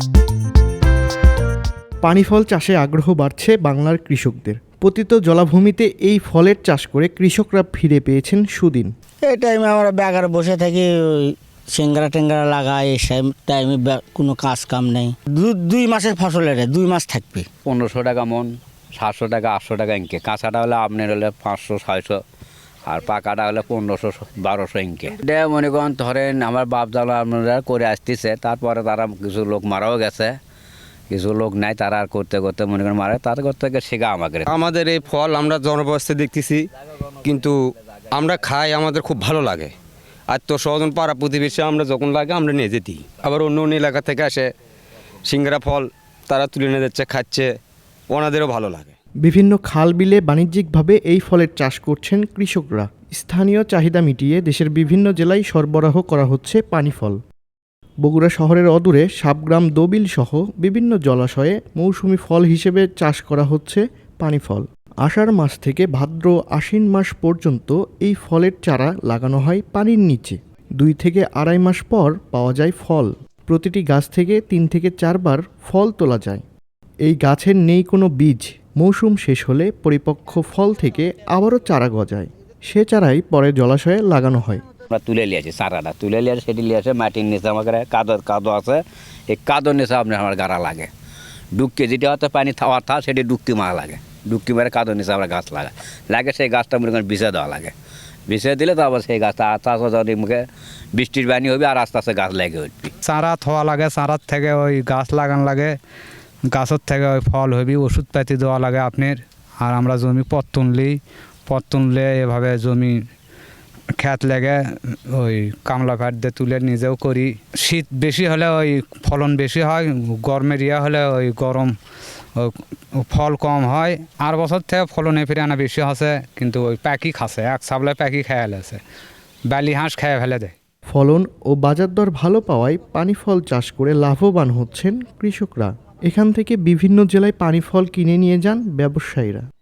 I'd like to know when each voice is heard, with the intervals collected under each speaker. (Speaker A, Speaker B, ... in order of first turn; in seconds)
Speaker A: 2.0-8.9, 49.2-57.2, 58.0-76.4, 77.0-84.6, 130.9-139.4
Speaker B: 9.2-17.5
Speaker C: 17.6-22.2, 22.9-30.3, 31.1-34.5, 84.9-90.9, 91.5-97.7, 98.3-102.9
Speaker D: 34.5-36.6, 37.2-37.5, 38.1-39.7, 40.3-44.5, 45.3-47.5, 48.1-48.9
Speaker E: 103.0-105.8, 106.5-112.9, 114.0-121.7, 122.3-128.8, 129.5-130.5